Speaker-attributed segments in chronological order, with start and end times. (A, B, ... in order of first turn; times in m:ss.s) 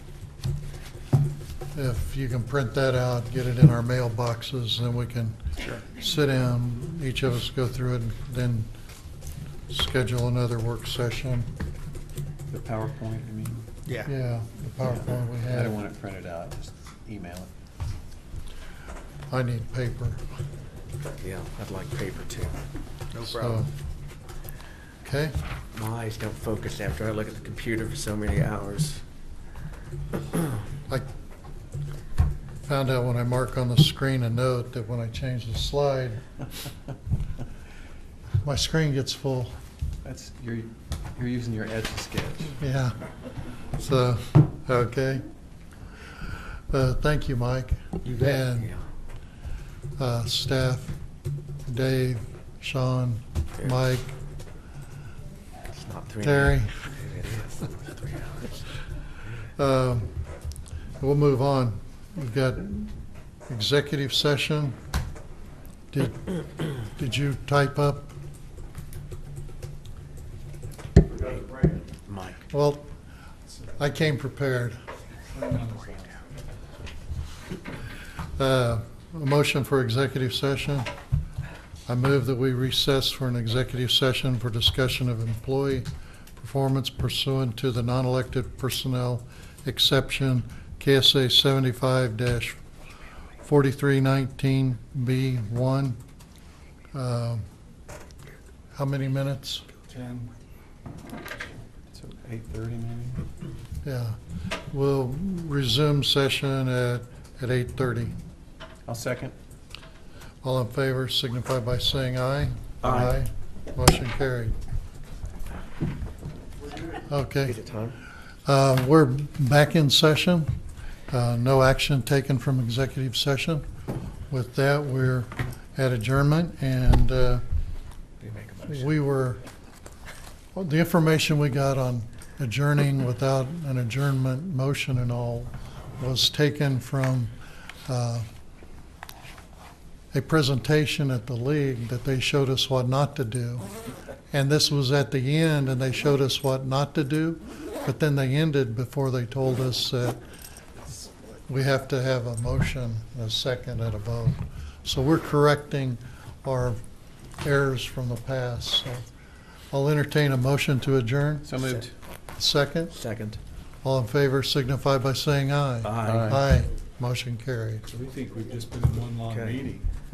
0:01.7-0:08.7 A
0:09.7-0:11.5 A
0:12.5-0:13.6 B
0:14.0-0:15.8 A
0:15.5-0:17.5 B
0:19.3-0:20.2 A
0:21.2-0:22.6 C
0:23.2-0:23.7 A
0:23.2-0:23.6 C
0:25.0-0:25.4 A
0:25.7-0:29.0 C
0:32.6-0:36.2 A
0:38.4-0:39.6 A
0:40.0-0:42.6 B
0:42.6-0:43.0 A
0:43.8-0:45.2 A
0:46.7-0:48.7 A
0:48.2-0:48.8 C
0:50.0-0:51.0 A
0:51.7-0:54.1 A
0:55.7-0:58.6 C
0:56.2-0:56.8 A
0:59.6-1:00.1 A
1:01.0-1:02.9 A
1:03.5-1:04.8 A
1:05.9-1:08.1 A
1:11.1-1:12.4 C
1:12.5-1:12.9 A
1:13.8-1:14.8 A
1:15.3-1:16.0 D
1:18.4-1:20.9 A
1:21.9-1:25.9 A
1:26.4-1:32.6 A
1:33.4-1:36.0 A
1:36.9-1:37.4 A
1:38.8-1:39.6 A
1:39.9-1:40.3 D
1:41.9-1:43.2 B
1:43.8-1:44.2 A
1:44.7-1:48.2 A
1:48.9-1:49.3 B
1:50.4-1:54.6 A
1:52.8-1:53.1 C
1:57.1-1:57.6 A
1:57.4-1:58.0 C
1:58.5-2:00.5 A
2:01.1-2:03.6 A
2:04.3-2:07.4 A
2:08.2-2:08.9 C
2:08.7-2:09.4 A
2:10.6-2:17.3 A
2:17.9-2:18.3 A
2:20.1-2:23.7 A
2:24.3-2:30.2 A
2:31.5-2:36.8 A
2:37.4-2:39.1 A
2:39.7-2:41.6 A
2:41.4-2:41.9 B
2:42.4-2:42.9 A
2:42.9-2:43.4 C
2:43.8-2:47.9 A
2:45.8-2:46.4 C
2:46.0-2:46.4 B
2:47.9-2:49.8 D
2:49.3-2:49.7 C